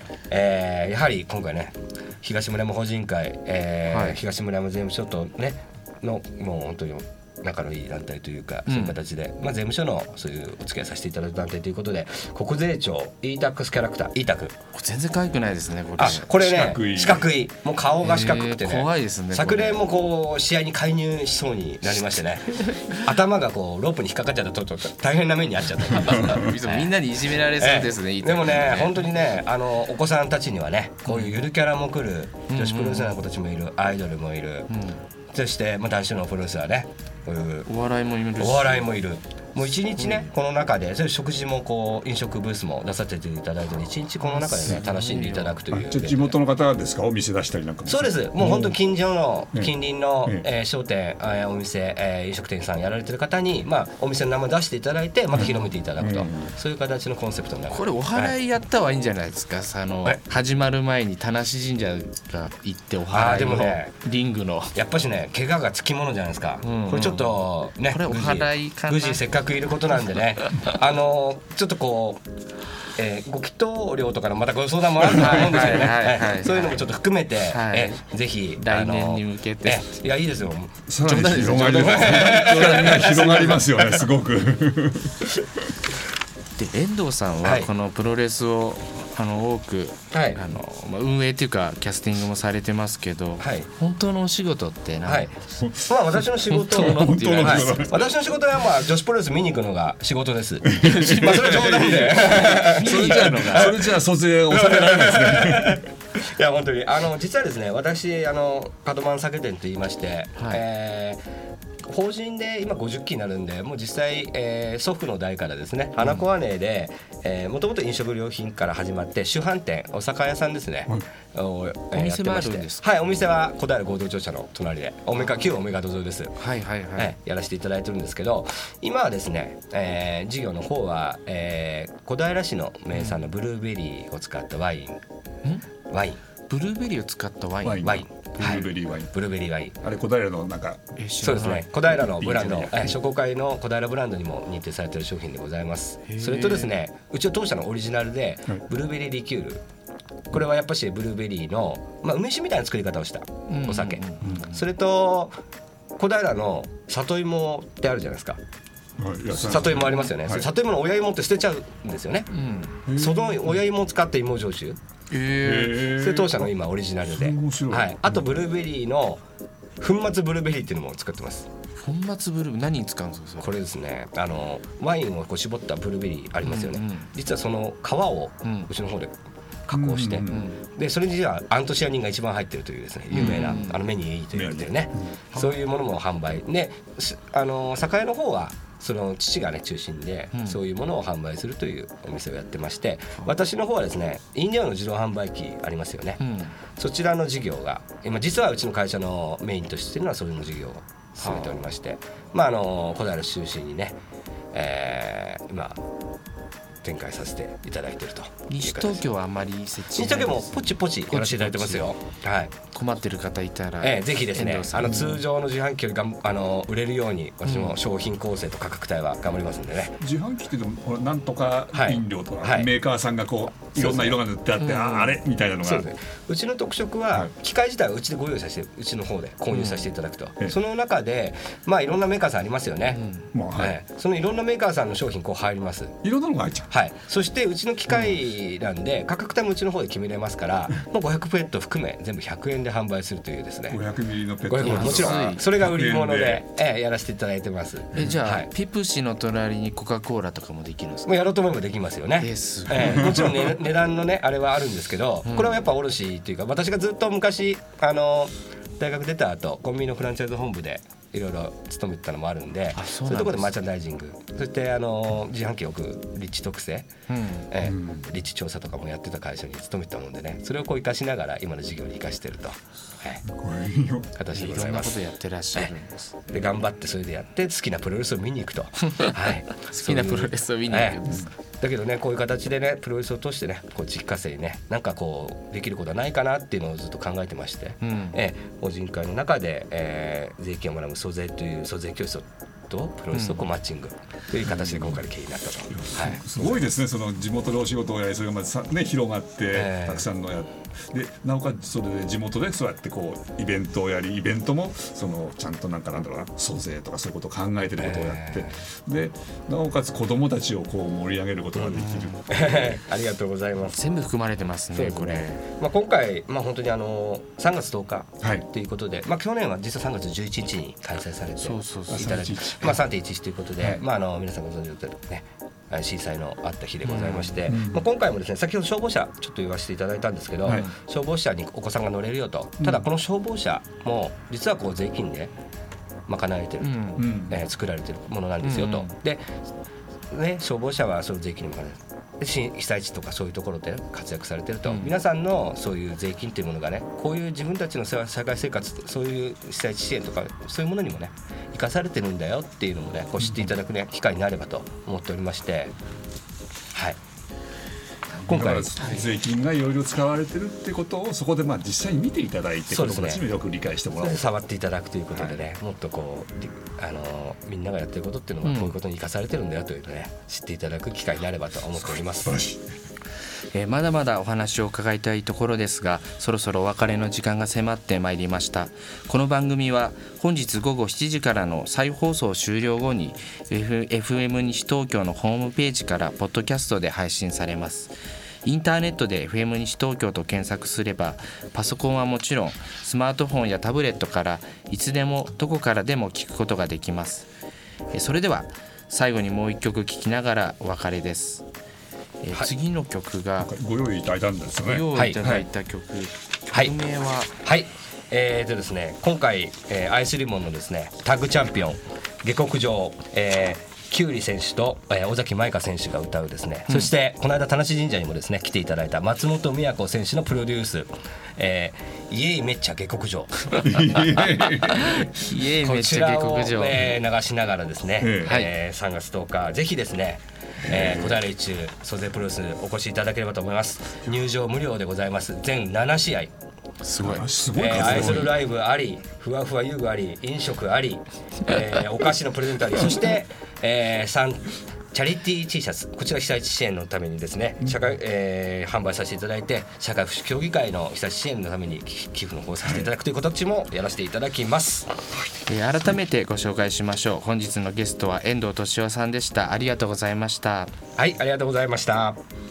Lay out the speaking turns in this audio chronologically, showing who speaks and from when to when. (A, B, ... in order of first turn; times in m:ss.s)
0:00.3-0:14.5 A
0:03.9-0:04.2 B
0:08.7-0:09.0 B
0:14.7-0:16.3 B
0:16.0-0:26.9 A
0:16.3-0:17.3 C
0:18.0-0:19.8 B
0:22.4-0:23.0 B
0:26.0-0:29.0 B
0:27.6-0:34.7 A
0:31.1-0:31.3 B
0:32.5-0:33.2 B
0:34.7-0:35.0 B
0:35.3-0:37.7 A
0:37.6-0:38.9 B
0:38.4-0:46.3 A
0:40.0-0:40.3 B
0:44.2-0:45.6 B
0:45.7-0:48.8 C
0:47.8-0:58.3 A
0:55.3-0:56.5 C
0:57.7-1:04.7 B
1:03.1-1:03.9 A
1:04.7-1:12.2 A
1:06.6-1:09.2 B
1:10.4-1:10.7 B
1:13.0-1:24.0 A
1:15.0-1:15.5 C
1:15.1-1:16.8 B
1:17.5-1:18.0 B
1:18.6-1:19.8 B
1:20.9-1:25.3 C
1:21.0-1:23.0 B
1:26.6-1:35.3 B
1:27.4-1:27.7 A
1:30.1-1:30.4 A
1:33.4-1:33.7 A
1:35.0-1:43.9 A
1:35.6-1:36.0 C
1:36.5-1:38.0 B
1:36.7-1:38.1 C
1:40.7-1:45.8 C
1:40.8-1:43.7 B
1:44.5-1:51.2 A
1:51.9-2:06.4 A
1:56.0-1:56.2 B
2:01.9-2:02.8 B
2:06.4-2:07.1 B
2:07.0-2:15.0 A
2:12.9-2:13.2 B
2:15.9-2:16.2 A
2:16.5-2:18.0 B
2:17.6-2:19.1 C
2:17.8-2:19.7 A
2:19.8-2:20.9 C
2:21.0-2:21.7 B
2:21.2-2:29.6 A
2:22.0-2:22.9 C
2:26.1-2:26.7 B
2:30.3-2:35.3 A
2:33.5-2:34.6 B
2:36.0-2:38.4 A
2:39.0-2:40.4 C
2:39.3-2:42.3 A
2:42.3-2:42.8 B
2:42.8-2:43.6 C
2:42.9-2:44.8 A
2:45.1-2:45.9 B
2:45.4-2:46.5 C
2:45.7-2:49.2 A
2:47.1-2:48.2 C
2:49.8-2:51.5 A
2:51.8-2:53.5 B
2:53.4-2:59.1 A
2:56.4-2:57.1 B
2:58.4-2:58.7 B
2:59.7-3:16.2 A
2:59.7-3:00.5 C
3:00.3-3:00.6 B
3:03.1-3:03.8 B
3:04.3-3:05.2 C
3:10.3-3:10.6 B
3:16.2-3:16.5 B
3:16.8-3:24.0 A
3:21.2-3:21.6 B
3:24.5-3:25.8 A
3:26.8-3:29.0 A
3:28.5-3:31.9 B
3:30.0-3:32.5 A
3:32.7-3:35.1 B
3:33.8-3:40.0 A
3:34.8-3:35.2 C
3:37.4-3:37.8 B
3:40.0-3:45.9 C
3:41.7-3:42.7 A
3:43.7-3:44.2 A
3:44.6-3:45.1 B
3:45.6-3:53.0 A
3:49.5-3:49.9 B
3:52.9-3:53.2 B
3:53.3-3:53.8 C
3:53.5-3:56.0 A
3:56.0-3:56.7 C
3:56.7-4:03.8 A
4:03.7-4:06.4 C
4:04.5-4:08.5 A
4:04.6-4:05.4 B
4:07.9-4:11.1 B
4:11.0-4:26.9 A
4:12.2-4:13.3 B
4:13.0-4:13.3 C
4:15.2-4:15.6 B
4:22.8-4:23.5 B
4:27.1-4:27.5 B
4:27.5-4:33.2 A
4:27.6-4:28.0 C
4:33.2-4:34.1 C
4:34.2-4:35.0 A
4:34.3-4:36.2 B
4:36.3-4:56.6 A
4:38.9-4:41.3 B
4:47.8-4:48.2 B
4:53.1-4:53.5 B
4:54.4-4:55.0 C
4:55.7-5:12.6 C
4:59.5-5:00.0 A
5:07.8-5:08.6 A
5:11.6-5:13.8 A
5:11.8-5:12.4 B
5:13.7-5:15.4 B
5:14.7-5:35.3 A
5:21.4-5:22.3 B
5:21.9-5:22.8 C
5:26.8-5:27.4 B
5:27.5-5:27.8 C
5:32.6-5:32.8 C
5:36.1-5:39.3 A
5:36.6-5:37.0 B
5:37.0-5:37.4 C
5:38.4-5:38.9 B
5:40.1-5:55.7 A
5:44.6-5:44.9 B
5:53.2-5:53.5 C
5:58.2-5:59.0 A
5:58.3-6:04.3 C
6:02.7-6:03.2 A
6:04.0-6:12.3 A
6:08.4-6:08.8 B
6:12.2-6:12.7 C
6:13.5-6:37.3 B
6:37.9-6:41.4 B
6:42.2-6:43.5 B
6:43.4-6:45.3 C
6:44.6-6:47.3 B
6:44.9-6:45.4 A
6:47.4-7:03.6 A
7:03.6-7:05.1 C
7:04.7-7:06.8 B
7:05.6-7:16.3 A
7:08.0-7:08.4 C
7:08.2-7:08.5 B
7:10.7-7:11.1 C
7:16.8-7:18.4 B
7:17.0-7:18.4 C
7:17.6-7:34.9 A
7:32.6-7:32.9 C
7:35.5-7:40.7 B
7:41.0-7:42.2 A